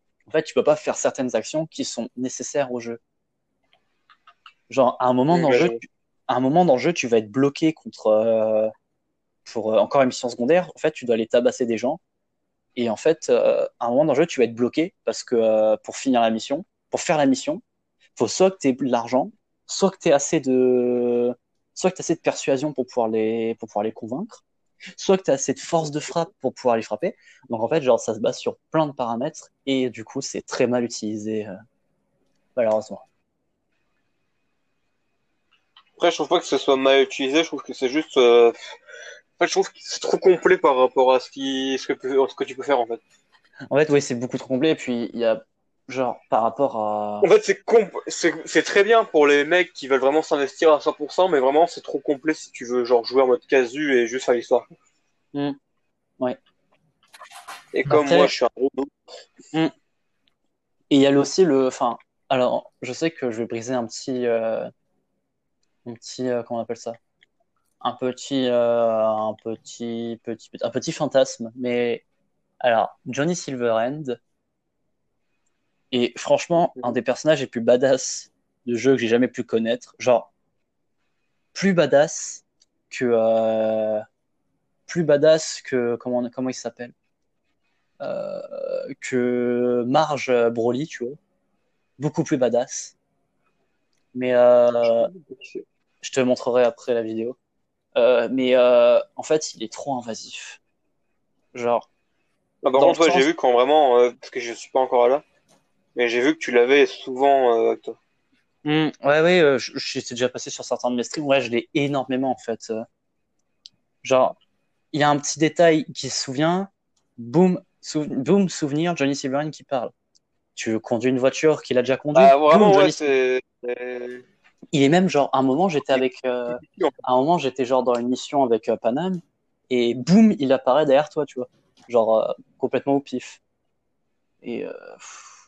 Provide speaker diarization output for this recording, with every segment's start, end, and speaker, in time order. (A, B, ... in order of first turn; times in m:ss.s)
0:00.3-0:03.0 A
0:04.7-0:08.7 A
0:05.3-0:05.8 B
0:09.4-0:12.0 A
0:12.8-0:17.6 A
0:18.2-0:24.4 A
0:25.0-0:31.5 A
0:32.6-0:33.0 A
0:36.0-0:38.7 B
0:39.4-0:43.0 B
0:43.7-0:47.3 A
0:47.2-0:54.7 B
0:57.7-0:58.9 B
0:57.9-0:58.3 A
1:00.9-1:04.7 A
1:05.8-1:07.0 A
1:07.8-1:12.0 A
1:12.6-1:14.2 A
1:15.9-1:20.3 A
1:21.5-1:24.0 A
1:24.9-1:26.9 A
1:28.0-1:31.2 A
1:32.0-1:32.9 A
1:34.1-1:35.1 A
1:34.8-1:35.6 B
1:36.0-1:37.4 A
1:38.0-1:40.6 A
1:41.5-1:41.9 A
1:42.6-1:45.2 B
1:42.8-1:43.3 A
1:45.9-1:48.0 B
1:48.6-1:52.8 A
1:54.0-1:54.4 A
1:54.9-1:59.9 A
2:00.6-2:03.1 A
2:02.1-2:04.2 B
2:04.7-2:13.4 A
2:05.9-2:06.9 B
2:14.4-2:15.3 A